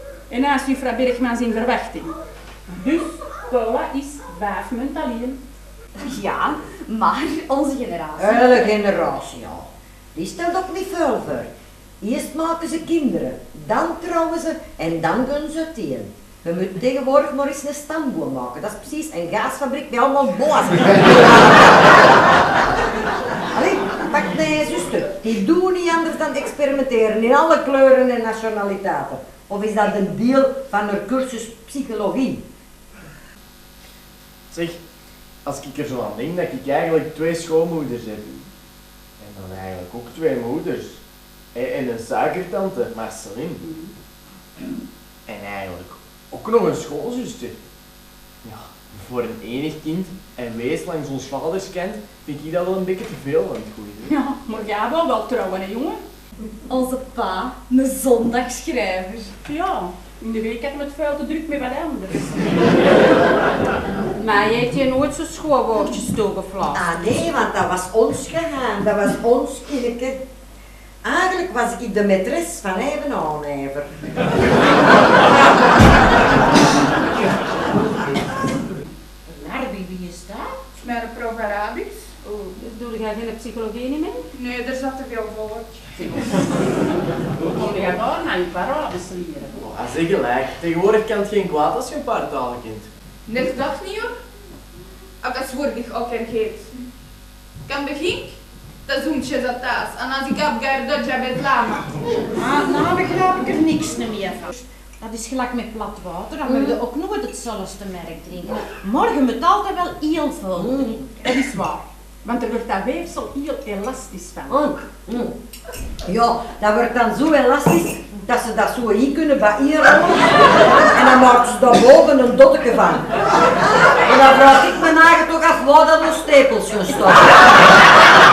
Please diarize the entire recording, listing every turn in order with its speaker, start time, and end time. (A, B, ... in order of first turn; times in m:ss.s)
0:00.3-0:02.1 A
0:02.7-0:05.4 A
0:05.9-0:08.7 B
0:08.2-0:11.5 C
0:12.0-0:22.2 C
0:23.5-0:32.4 C
0:34.5-0:34.8 D
0:35.4-0:38.4 D
0:39.2-0:41.0 D
0:41.5-0:43.6 D
0:43.6-0:43.9 A
0:45.2-0:47.5 D
0:48.4-0:54.1 D
0:54.1-0:56.0 A
0:56.6-0:59.3 B
0:59.4-1:02.6 A
1:04.2-1:05.6 A
1:05.9-1:06.2 E
1:06.7-1:10.2 C
1:11.0-1:13.9 C
1:19.3-1:20.6 E
1:20.8-1:22.3 F
1:22.4-1:24.2 A
1:24.3-1:25.8 F
1:26.0-1:26.4 A
1:27.4-1:29.6 A
1:29.6-1:32.9 D
1:33.2-1:34.1 F
1:35.2-1:36.7 F
1:37.6-1:41.9 F
1:42.4-1:50.9 E
1:46.4-1:46.8 C
1:50.6-1:51.0 C
1:51.2-1:54.6 A
1:54.5-1:55.3 C
1:56.0-2:03.2 C
2:03.9-2:07.5 C